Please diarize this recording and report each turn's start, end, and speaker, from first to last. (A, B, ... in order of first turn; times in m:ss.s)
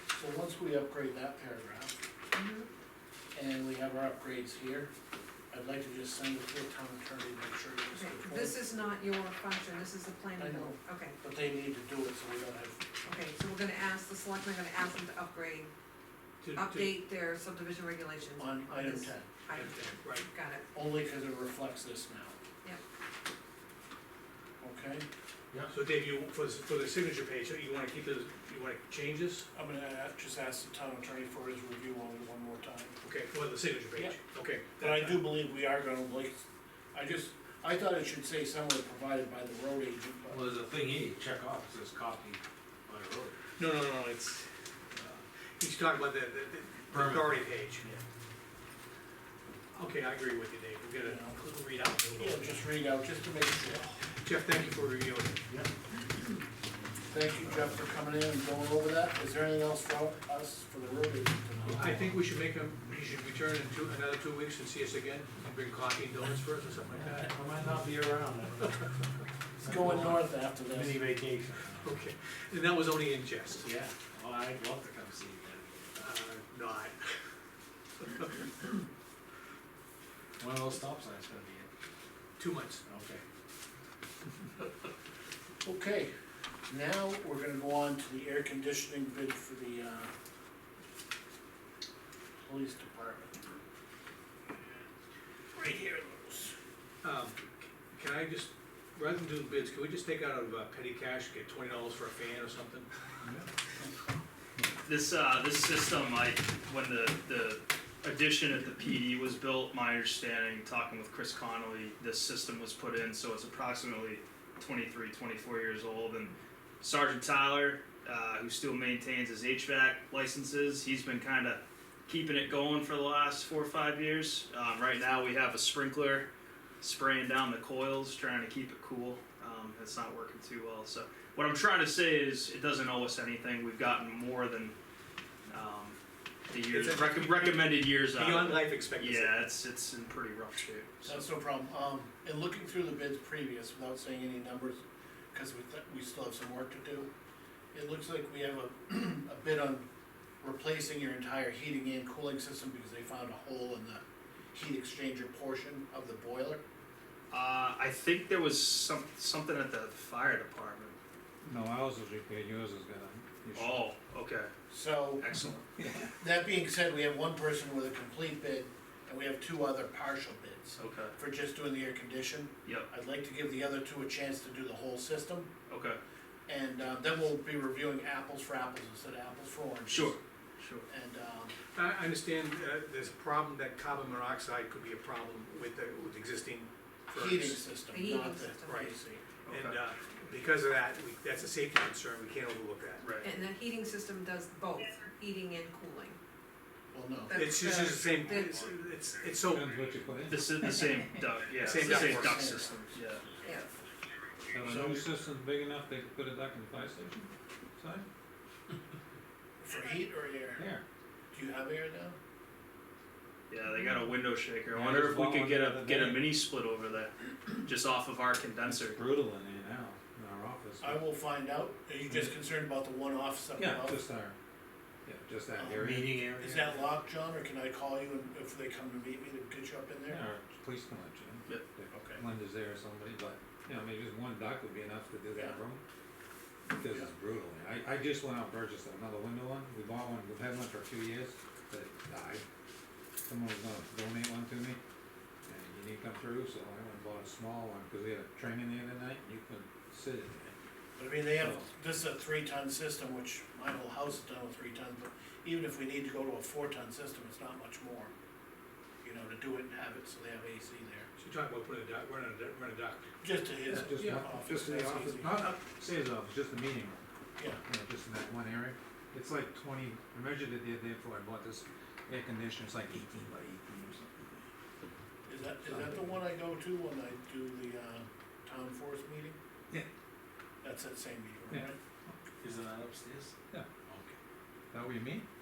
0:00.1-0:01.9 A
0:02.4-0:02.7 B
0:03.3-0:04.9 A
0:05.5-0:08.9 A
0:08.0-0:11.2 B
0:10.4-0:12.9 A
0:13.0-0:15.7 B
0:16.4-0:17.0 C
0:16.6-0:20.7 B
0:18.4-0:19.4 A
0:19.4-0:20.4 C
0:20.7-0:22.4 A
0:24.6-0:25.1 A
0:25.7-0:29.5 C
0:29.5-0:33.0 A
0:33.0-0:35.4 C
0:33.9-0:36.4 A
0:36.9-0:40.4 A
0:40.3-0:43.4 D
0:43.6-0:47.9 C
0:46.9-0:48.0 D
0:49.7-0:52.7 C
0:51.0-0:51.4 A
0:52.1-0:54.0 A
0:54.2-0:55.4 C
0:57.1-1:02.1 A
1:01.6-1:02.1 D
1:01.8-1:07.3 C
1:06.9-1:08.9 D
1:09.6-1:12.0 D
1:09.6-1:11.1 A
1:11.8-1:13.7 C
1:13.6-1:16.1 D
1:16.0-1:17.2 C
1:18.0-1:18.8 C
1:20.4-1:21.7 D
1:22.4-1:22.8 C
1:22.8-1:23.2 D
1:25.6-1:26.1 A
1:26.7-1:30.1 A
1:32.4-1:33.3 A
1:34.6-1:34.8 A
1:35.5-1:36.6 A
1:37.0-1:42.9 C
1:44.9-2:06.3 E
2:06.8-2:14.8 E
2:15.5-2:16.0 E
2:16.5-2:21.3 E
2:16.7-2:19.5 C
2:21.1-2:24.8 A
2:25.3-2:27.1 A
2:27.7-2:29.9 A
2:30.4-2:36.6 A
2:37.3-2:41.0 E
2:41.4-2:43.9 F
2:43.6-2:44.5 E
2:44.7-2:45.2 A
2:45.2-2:45.7 E
2:45.8-2:46.1 F
2:46.2-2:55.5 A
2:50.8-2:51.2 E
2:55.7-2:56.0 E
2:56.5-3:00.2 A
2:59.9-3:00.9 E
3:00.9-3:01.6 A
3:01.7-3:07.9 C
3:07.1-3:09.2 A
3:07.9-3:08.8 B
3:08.6-3:13.1 C
3:09.4-3:09.8 E
3:13.0-3:13.3 E
3:13.2-3:16.2 B
3:16.9-3:17.7 A
3:17.3-3:18.5 B
3:17.3-3:19.7 C
3:19.5-3:20.5 F
3:20.3-3:23.3 E
3:21.6-3:22.5 C
3:21.7-3:22.9 A
3:23.4-3:23.7 B
3:24.5-3:28.1 F
3:24.5-3:25.0 E
3:29.6-3:30.6 A
3:30.6-3:30.8 F
3:31.3-3:32.2 A
3:33.5-3:39.0 E
3:34.7-3:36.3 F
3:38.6-3:41.0 F
3:40.8-3:44.0 A
3:42.1-3:42.4 F
3:43.6-3:44.4 F
3:45.1-3:46.2 F
3:45.6-3:50.2 A
3:45.8-3:46.8 D
3:50.1-3:55.8 F
3:51.9-3:52.2 A
3:56.7-4:02.4 F
4:03.2-4:04.8 F
4:05.5-4:10.5 F
4:11.0-4:18.1 A
4:11.3-4:11.7 F
4:19.0-4:21.1 A
4:21.2-4:23.1 C
4:23.2-4:25.5 A
4:23.7-4:27.0 F
4:24.0-4:24.3 C
4:27.6-4:34.4 F
4:35.3-4:39.4 A
4:35.7-4:36.0 F
4:40.6-4:41.8 A
4:41.5-4:42.1 F
4:42.4-4:44.2 D
4:44.7-4:45.2 F